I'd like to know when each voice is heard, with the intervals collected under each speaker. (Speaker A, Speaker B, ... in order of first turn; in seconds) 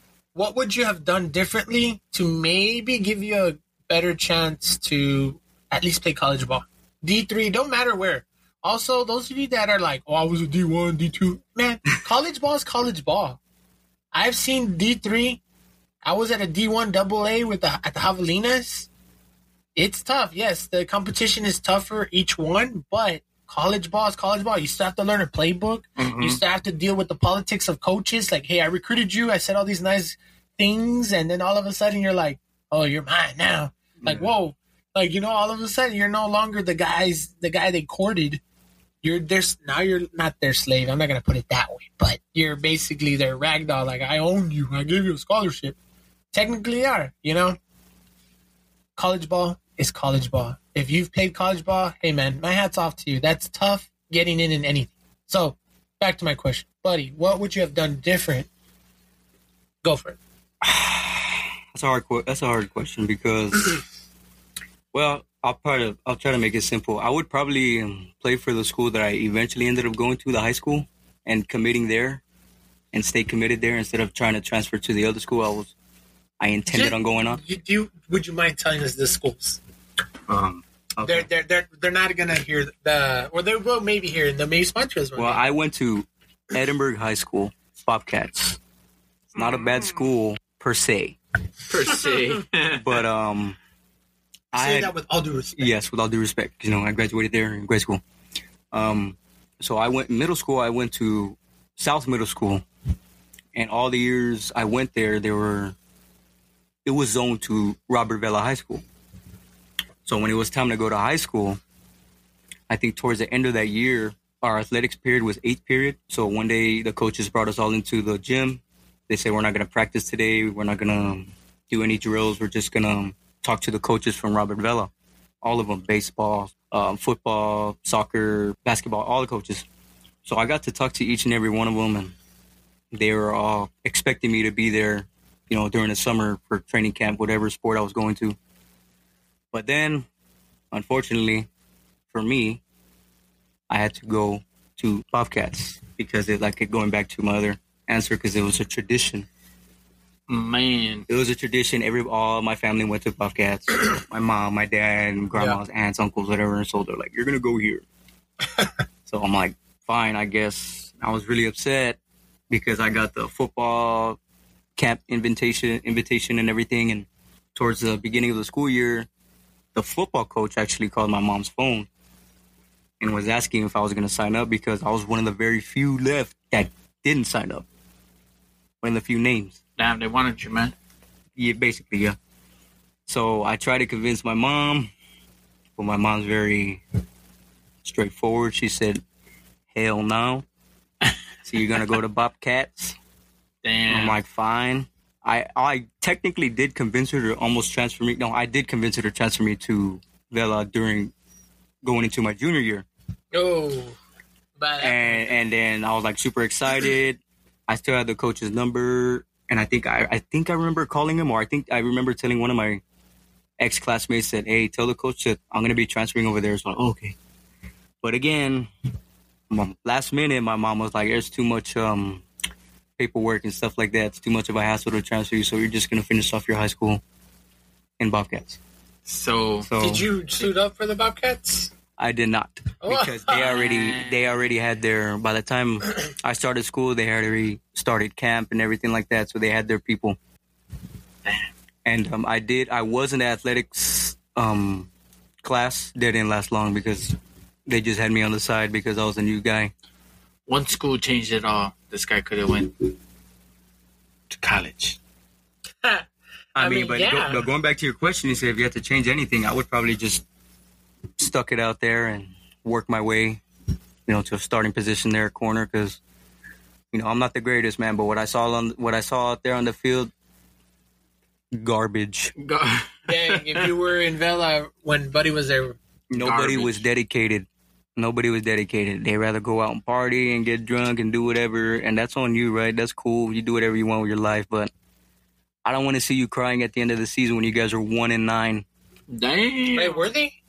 Speaker A: 0.3-13.4, 14.1-15.4, 16.0-18.9, 19.8-38.4, 39.0-45.8, 46.3-47.6, 49.0-58.5, 59.8-60.2, 76.7-79.6, 81.0-85.4, 94.5-95.7, 203.3-204.0, 204.6-205.4, 229.8-231.7, 232.8-233.5, 256.6-257.4, 273.1-275.8, 289.8-290.4
Speaker B: 26.0-26.4, 89.3-90.0, 91.7-93.0, 150.3-151.1, 179.8-180.7, 193.6-194.2, 229.1-229.7, 233.3-234.4, 250.5-252.9, 254.3-255.0, 272.4-273.7, 276.2-276.8, 289.1-290.1
Speaker C: 34.0-34.3, 60.6-63.8, 64.9-72.2, 72.9-75.7, 76.4-77.4, 80.3-81.3, 85.2-88.6, 89.3-91.2, 92.7-93.6, 94.5-94.9, 95.6-98.0, 98.7-102.7, 103.5-105.7, 106.8-108.8, 110.0-111.6, 112.7-124.9, 125.4-129.7, 130.2-132.1, 132.9-138.4, 139.5-140.1, 140.7-141.5, 142.1-142.6, 143.7-149.3, 151.1-157.8, 159.1-162.0, 162.5-164.2, 164.8-169.1, 169.8-171.9, 173.0-177.7, 178.8-179.6, 181.4-182.2, 183.1-184.9, 185.8-186.8, 187.8-189.0, 189.7-190.4, 191.4-193.0, 193.9-201.1, 201.8-202.9, 204.8-212.8, 213.6-217.2, 218.0-218.7, 219.5-222.2, 223.0-227.0, 228.0-228.6, 229.6-230.1, 232.0-240.2, 241.8-244.9, 245.4-249.7, 256.6-260.2, 261.2-263.4, 264.1-266.0, 266.9-270.1, 271.5-272.3, 276.1-284.7, 285.6-288.6